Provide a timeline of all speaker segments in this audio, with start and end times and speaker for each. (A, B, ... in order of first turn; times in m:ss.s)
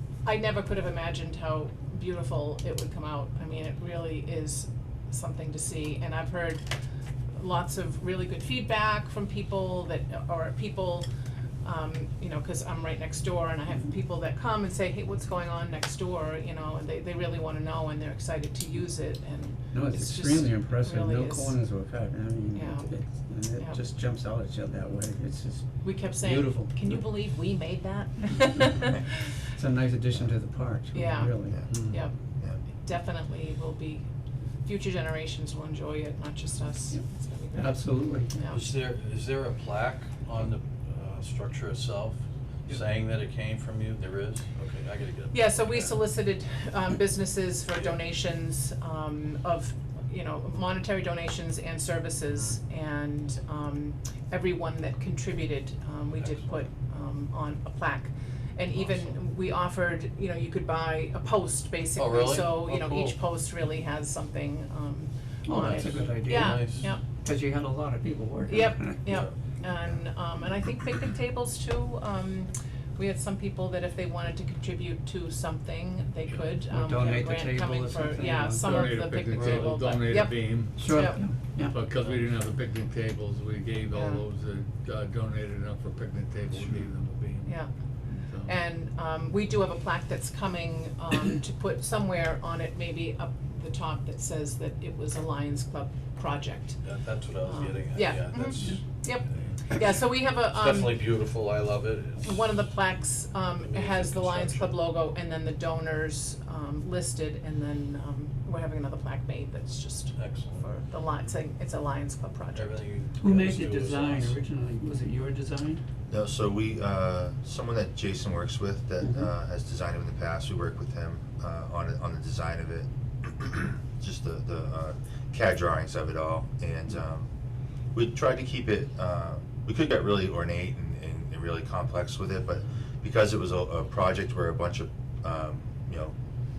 0:00.2-0:06.6 A
0:07.4-0:11.1 A
0:11.6-0:21.5 A
0:19.7-0:25.6 B
0:22.5-0:22.9 A
0:25.8-0:29.2 A
0:26.2-0:27.0 B
0:28.4-0:28.8 B
0:29.4-0:31.6 B
0:30.9-0:31.3 A
0:31.5-0:32.6 C
0:31.7-0:32.0 D
0:31.9-0:32.1 A
0:32.8-0:34.1 A
0:34.6-0:38.7 A
0:37.5-0:38.4 B
0:38.5-0:46.0 E
0:45.3-1:07.0 A
0:56.2-0:56.5 E
0:58.8-0:59.1 E
1:02.0-1:03.2 E
1:05.4-1:09.0 B
1:05.5-1:06.9 E
1:08.5-1:21.2 A
1:16.7-1:18.9 B
1:18.6-1:27.6 D
1:19.3-1:19.7 E
1:20.8-1:21.8 B
1:22.0-1:22.2 E
1:23.9-1:24.2 A
1:27.4-1:27.7 A
1:28.2-1:28.5 D
1:28.4-1:36.8 A
1:36.8-1:38.8 E
1:37.4-1:41.0 A
1:40.5-1:42.5 E
1:42.2-1:52.8 A
1:43.6-1:44.8 E
1:50.1-1:50.7 E
1:52.5-1:54.4 E
1:53.2-1:55.8 B
1:56.1-2:07.3 C
1:59.0-1:59.3 B
2:07.9-2:16.1 C